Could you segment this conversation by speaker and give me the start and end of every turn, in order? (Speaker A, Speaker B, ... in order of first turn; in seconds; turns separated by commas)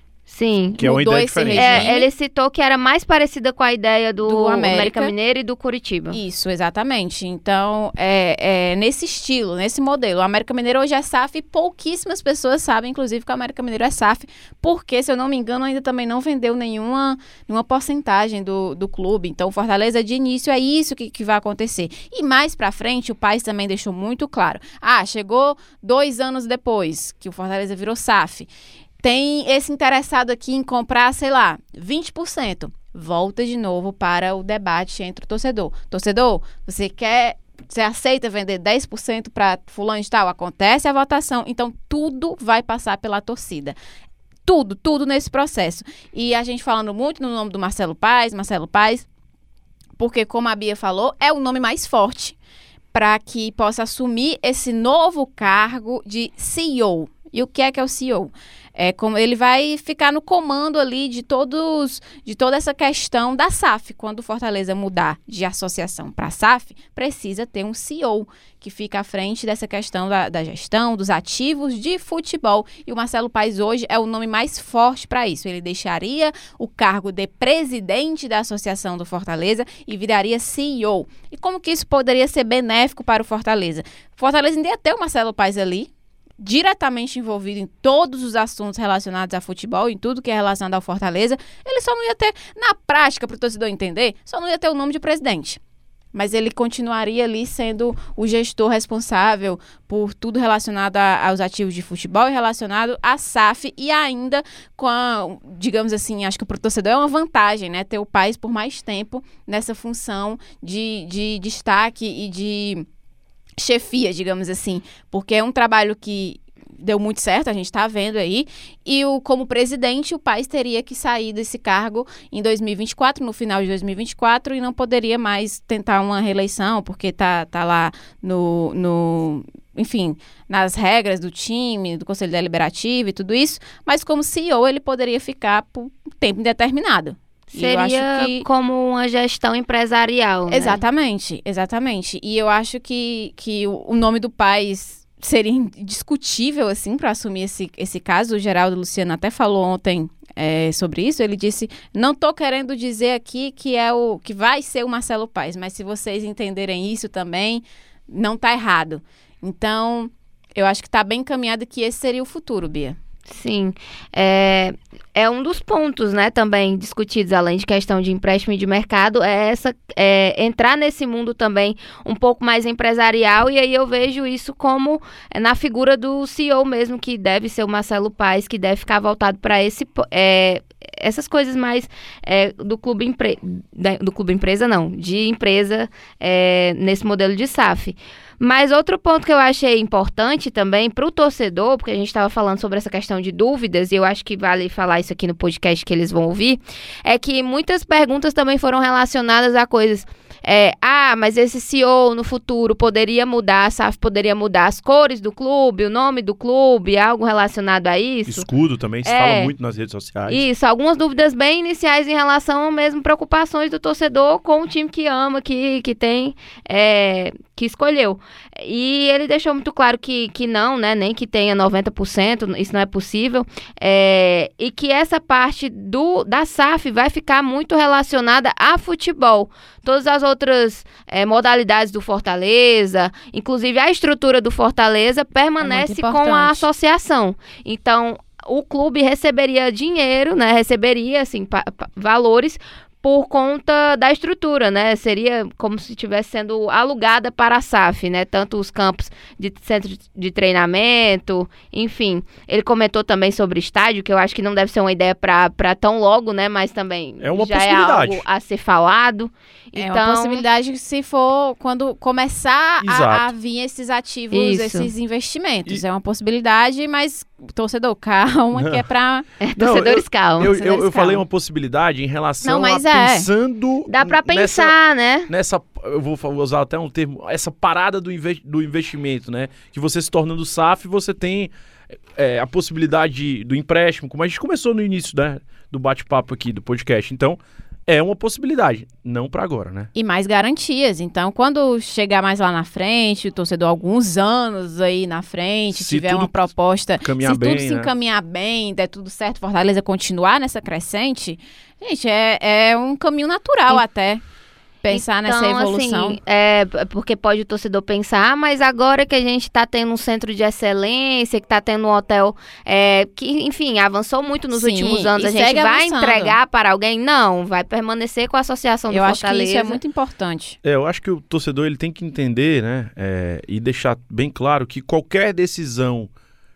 Speaker A: 0.3-0.8, Speaker B: 0.8-1.9, Speaker C: 0.8-2.1, Speaker A: 1.5-6.2, Speaker C: 4.2-5.1, Speaker C: 6.1-28.5, Speaker C: 29.0-43.8, Speaker C: 44.5-49.1, Speaker C: 50.0-52.4, Speaker C: 52.9-95.6, Speaker C: 96.1-112.8, Speaker C: 113.6-138.4, Speaker A: 137.5-140.8, Speaker C: 140.5-163.0, Speaker A: 163.3-208.4, Speaker B: 208.2-210.4, Speaker A: 209.0-209.5, Speaker A: 210.3-260.4, Speaker C: 235.6-236.7, Speaker B: 257.2-258.2, Speaker C: 259.7-269.2, Speaker B: 262.8-263.3, Speaker A: 264.3-264.9, Speaker B: 268.5-268.8, Speaker A: 269.4-270.5, Speaker B: 269.6-274.7, Speaker C: 270.4-271.2, Speaker C: 272.4-273.3, Speaker A: 273.9-275.3, Speaker B: 275.3-281.5, Speaker B: 282.1-289.9, Speaker C: 289.9-304.2, Speaker B: 295.7-296.5, Speaker B: 297.0-297.9, Speaker C: 304.8-306.2, Speaker A: 304.9-319.8, Speaker C: 314.5-316.4, Speaker C: 318.9-320.6, Speaker B: 320.6-326.1